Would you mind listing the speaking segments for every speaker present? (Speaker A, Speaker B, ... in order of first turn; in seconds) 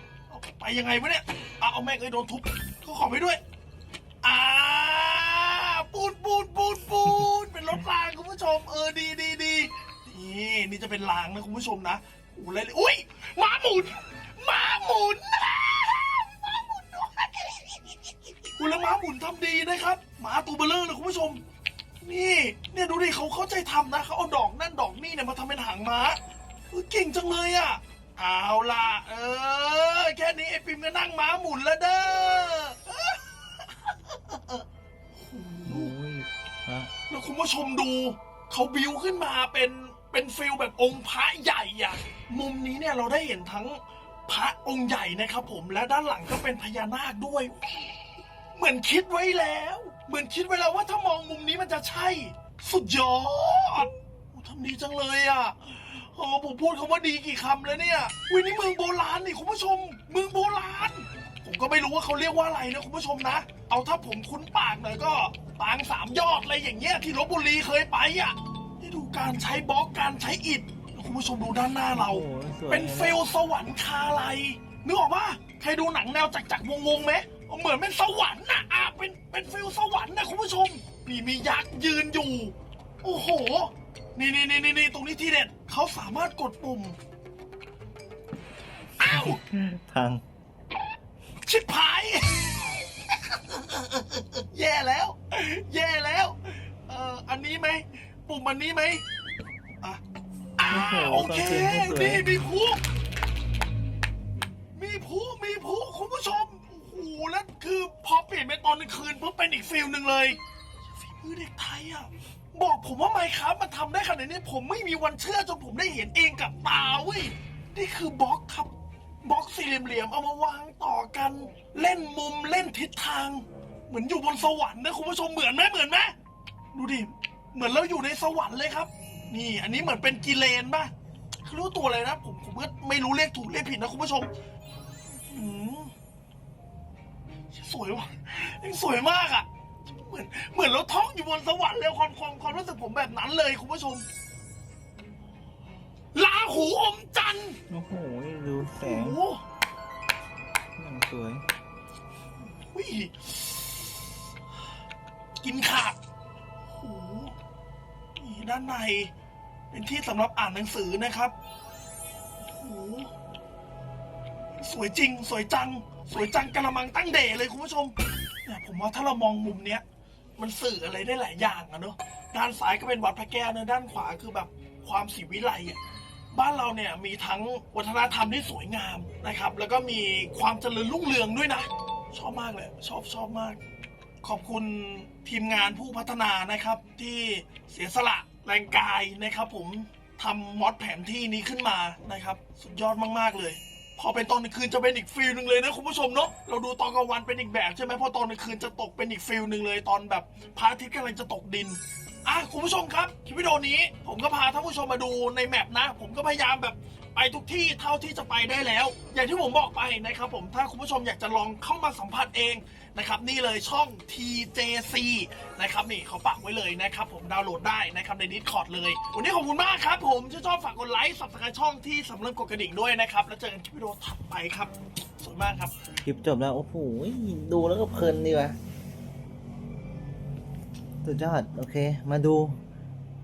Speaker A: 0.3-3.4, 4.2-17.8, 18.6-21.4, 22.0-26.2, 26.7-35.9, 37.1-47.6, 48.5-87.0, 89.0-89.4, 91.4-99.0, 100.6-102.8, 104.8-110.4, 111.0-118.7, 119.2-126.1, 126.7-130.9, 131.4-134.3, 135.3-135.9, 137.5-144.1, 146.1-147.6, 148.8-149.4, 152.5-153.8, 155.4-156.0, 156.7-157.3, 158.2-159.1, 159.7-161.3, 162.4-163.1, 164.5-167.9, 168.4-169.8, 170.4-175.8, 176.3-183.6, 184.2-225.7
Speaker B: 35.6-36.9, 71.9-73.2, 89.0-90.2, 100.7-102.2, 147.7-149.2, 150.8-151.4, 226.0-228.6, 231.0-232.6